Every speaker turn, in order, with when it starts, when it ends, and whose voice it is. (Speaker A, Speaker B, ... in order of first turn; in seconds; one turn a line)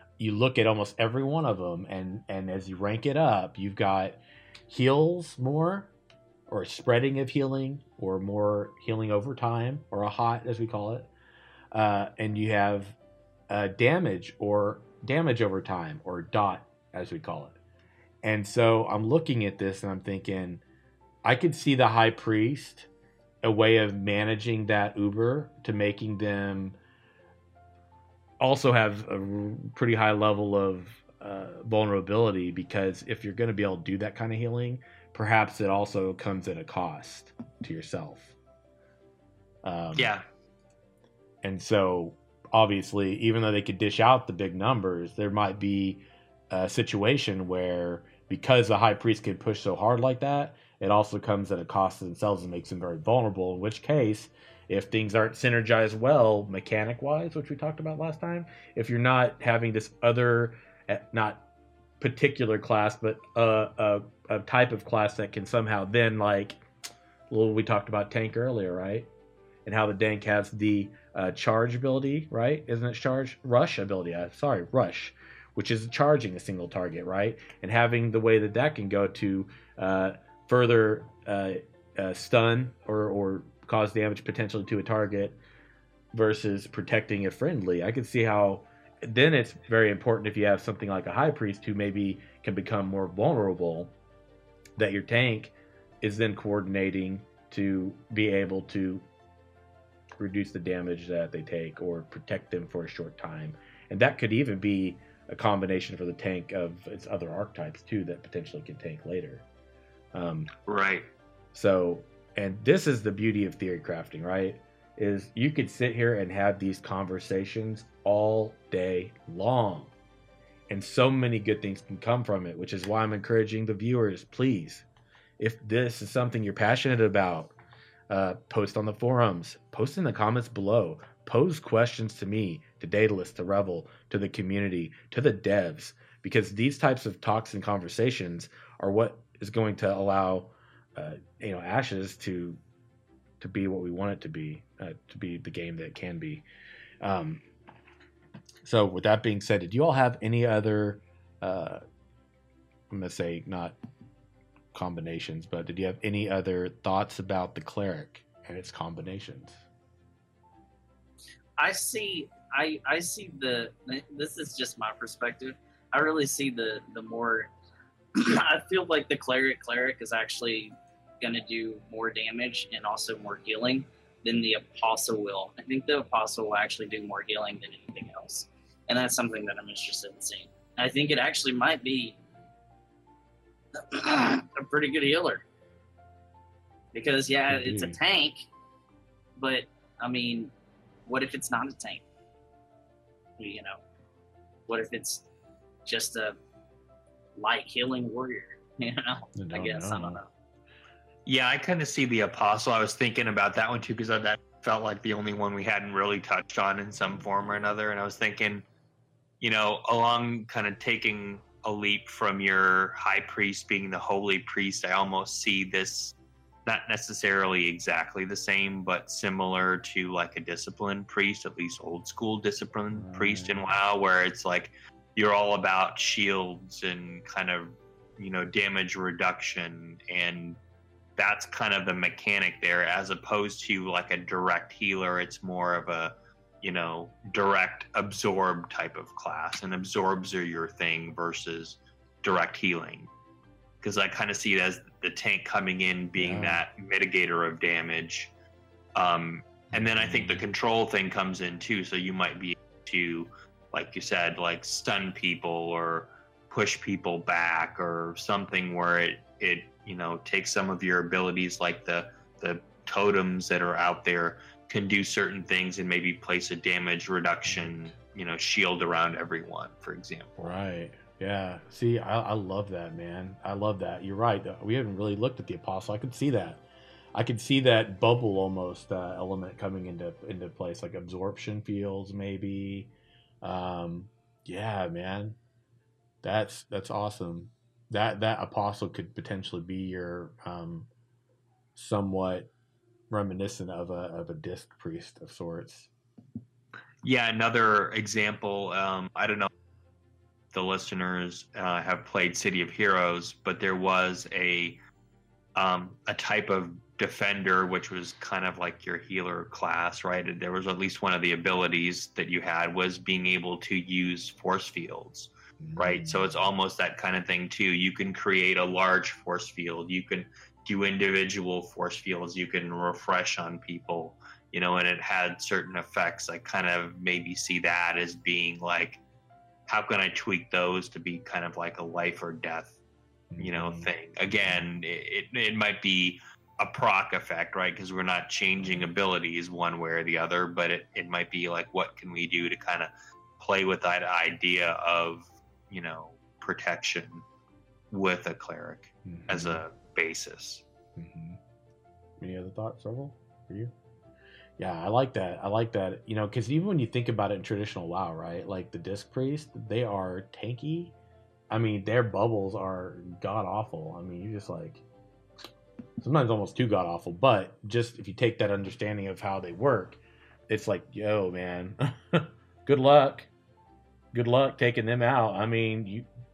Speaker A: 0.2-5.9
Speaker A: 6.5-11.1
Speaker A: 11.7-13.0
Speaker A: 13.5-17.6
Speaker A: 18.2-20.6
Speaker A: 21.2-22.9
Speaker A: 23.4-26.8
Speaker A: 28.4-38.4
Speaker A: 39.6-40.1
Speaker B: 39.9-40.2
Speaker A: 41.4-61.5
Speaker A: 62.0-66.6
Speaker A: 67.3-69.1
Speaker A: 69.7-85.4
Speaker A: 86.1-93.9
Speaker A: 94.8-99.0
Speaker A: 100.2-109.5
Speaker A: 110.1-110.5
Speaker B: 110.7-111.1
Speaker A: 111.5-119.9
Speaker A: 120.7-124.9
Speaker A: 125.4-127.5
Speaker A: 128.1-142.6
Speaker A: 143.4-146.4
Speaker A: 147.0-147.4
Speaker A: 148.6-151.8
Speaker A: 152.9-153.8
Speaker A: 154.7-159.6
Speaker C: 161.6-167.5
Speaker C: 168.2-182.2
Speaker C: 183.8-185.4
Speaker C: 186.9-188.5
Speaker A: 187.5-188.0
Speaker C: 189.4-190.5
Speaker C: 191.1-192.0
Speaker C: 193.4-193.8
Speaker C: 194.7-195.3
Speaker C: 195.9-196.4
Speaker C: 197.4-200.3
Speaker A: 199.4-200.2
Speaker B: 201.3-208.6
Speaker B: 209.4-216.2
Speaker B: 216.7-230.6
Speaker A: 222.9-223.6
Speaker B: 231.2-243.1
Speaker B: 243.8-248.3
Speaker A: 246.2-246.7
Speaker B: 248.9-270.4
Speaker A: 249.7-250.5
Speaker A: 267.5-267.9
Speaker A: 270.4-282.9
Speaker A: 283.4-285.4
Speaker A: 286.2-290.9
Speaker A: 291.8-292.5
Speaker A: 293.1-295.9
Speaker B: 297.0-299.5
Speaker B: 300.5-304.8
Speaker B: 305.6-329.0
Speaker A: 315.6-316.3
Speaker B: 329.7-332.8
Speaker A: 333.3-334.6
Speaker B: 333.4-347.2
Speaker B: 347.9-350.6
Speaker A: 349.1-349.6
Speaker A: 351.0-351.4
Speaker A: 352.2-353.7
Speaker A: 354.6-360.9
Speaker A: 361.5-364.8
Speaker A: 366.0-373.3
Speaker A: 374.1-376.1